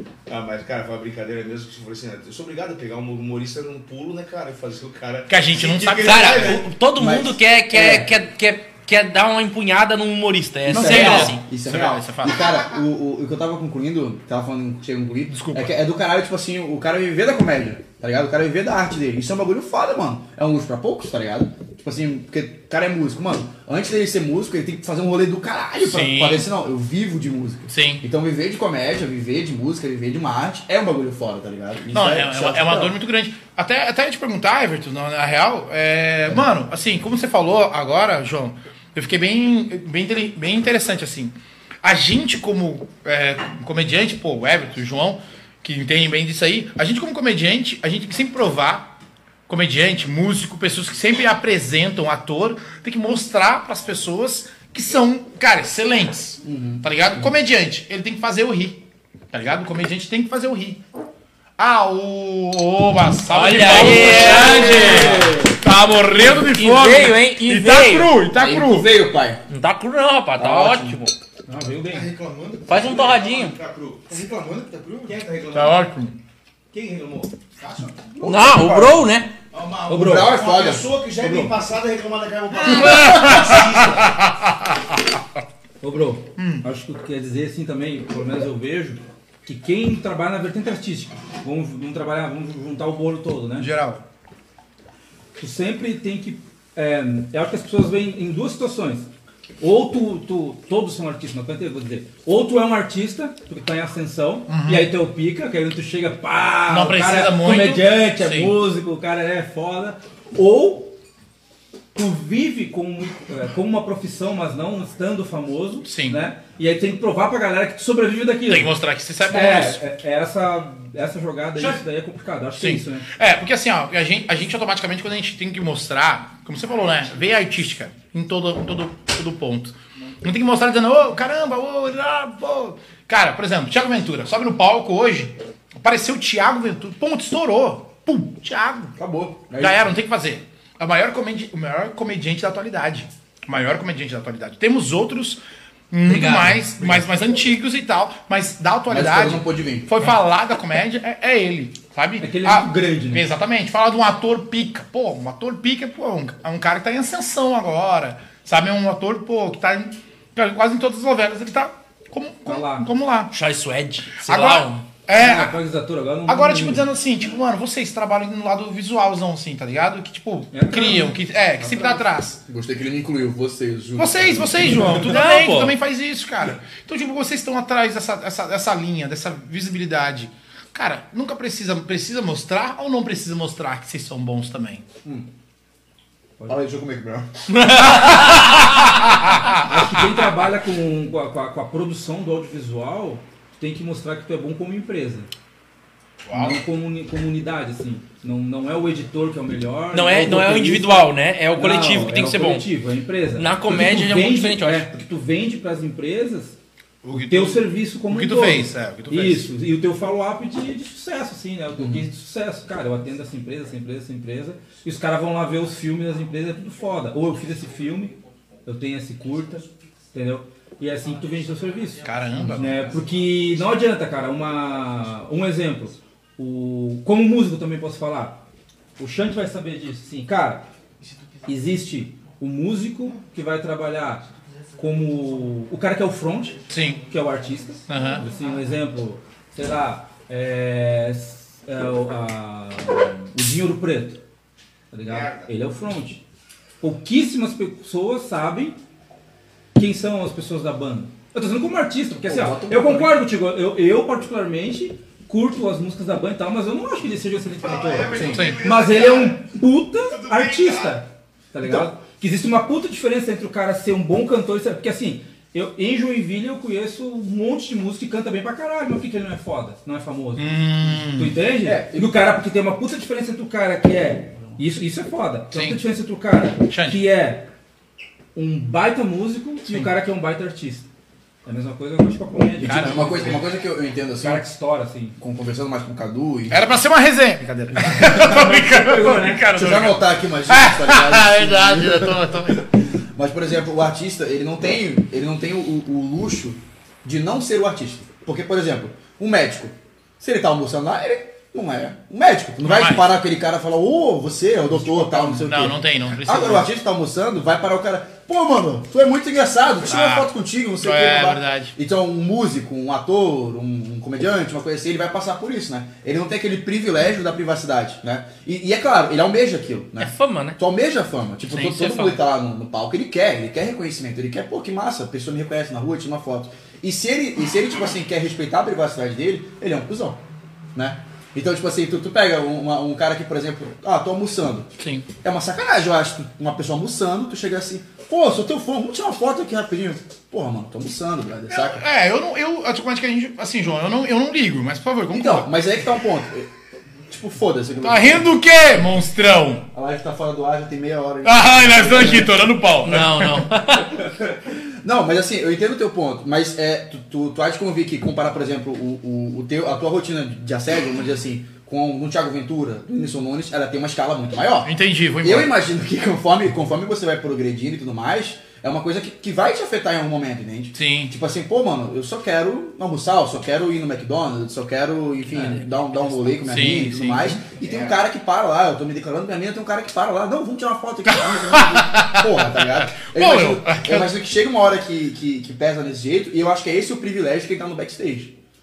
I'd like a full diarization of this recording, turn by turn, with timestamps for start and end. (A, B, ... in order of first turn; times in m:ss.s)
0:00.3-0:06.6 A
0:05.3-0:06.6 B
0:06.0-0:11.4 C
0:07.0-0:08.1 D
0:10.7-0:32.9 D
0:10.7-0:12.6 B
0:15.3-0:15.7 B
0:25.8-0:26.5 B
0:27.7-0:28.0 B
0:31.9-0:48.9 B
0:49.5-0:58.8 B
0:56.4-0:57.3 D
0:59.3-1:00.8 B
1:01.6-1:08.9 B
1:03.3-1:05.2 C
1:04.0-1:05.6 E
1:04.2-1:05.1 D
1:06.3-1:08.2 C
1:08.3-1:09.4 D
1:09.5-1:11.1 C
1:10.4-1:11.0 D
1:11.5-1:12.1 E
1:11.9-1:12.9 F
1:12.7-1:13.5 C
1:12.7-1:14.1 A
1:14.1-1:15.1 F
1:15.0-1:15.8 A
1:15.5-1:16.1 B
1:16.7-1:17.3 A
1:17.6-1:18.0 F
1:18.1-1:19.1 D
1:18.2-1:19.3 C
1:19.5-1:24.1 A
1:19.9-1:20.4 E
1:19.9-1:20.9 D
1:21.1-1:21.6 E
1:22.6-1:24.8 B
1:25.8-1:33.7 E
1:26.4-1:26.6 B
1:33.6-1:34.0 B
1:35.4-1:39.1 E
1:39.6-1:51.0 E
1:44.5-1:44.9 B
1:46.7-1:48.6 B
1:51.9-1:58.7 E
1:55.8-1:56.2 B
1:58.5-1:59.8 B
1:59.3-2:03.0 E
2:02.6-2:19.0 B
2:19.0-2:19.9 D
2:19.6-2:43.3 B
2:26.0-2:26.6 C
2:28.9-2:29.9 D
2:32.2-2:33.2 E
2:42.4-2:42.9 E
2:43.3-2:44.8 C
2:44.2-2:45.6 B
2:45.1-2:46.9 E
2:46.3-2:52.4 B
2:50.5-2:51.9 E
2:52.4-2:55.0 D
2:54.0-3:04.8 B
2:55.1-2:55.8 C
3:06.5-3:07.3 D
3:07.5-3:09.0 C
3:07.8-3:10.4 B
3:09.6-3:15.3 E
3:16.3-3:16.6 B
3:16.3-3:26.6 E
3:19.9-3:22.6 C
3:23.3-3:24.9 C
3:27.0-3:29.5 B
3:27.1-3:48.4 E
3:31.8-3:32.1 D
3:42.0-3:42.9 B
3:49.0-3:50.7 E
3:51.4-4:04.2 E
3:56.7-3:57.1 B
3:57.9-3:58.2 B
4:04.9-4:06.2 E
4:05.1-4:05.5 A
4:06.8-4:08.8 E
4:09.7-4:37.5 E
4:12.2-4:13.2 D
4:17.6-4:21.0 A
4:18.1-4:18.4 D
4:18.3-4:18.6 B
4:21.6-4:21.9 D
4:30.4-4:31.4 B
4:31.6-4:32.2 D
4:35.5-4:35.8 B
4:36.7-4:37.0 B
4:38.3-4:40.9 E
4:41.4-4:43.5 E
4:42.6-4:44.4 D
4:42.6-4:43.4 B
4:44.1-4:45.1 E
4:45.2-4:46.6 D
4:46.5-4:52.7 B
4:48.2-4:49.6 E
4:49.5-4:52.6 D
4:53.1-5:30.2 D
5:02.6-5:03.1 B
5:04.9-5:06.7 B
5:09.8-5:11.7 B
5:20.0-5:20.6 C
5:21.6-5:22.2 C
5:30.7-5:34.7 D
5:34.8-5:35.1 B
5:35.2-5:41.8 D
5:41.5-5:45.5 B
5:45.1-5:46.5 D
5:47.1-5:48.3 D
5:47.8-5:49.6 B
5:49.7-5:52.4 D
5:51.2-5:53.5 B
5:52.8-5:53.9 C
5:54.8-6:28.3 D
6:04.6-6:05.5 B
6:10.7-6:11.1 B
6:16.4-6:17.3 B
6:21.1-6:24.1 B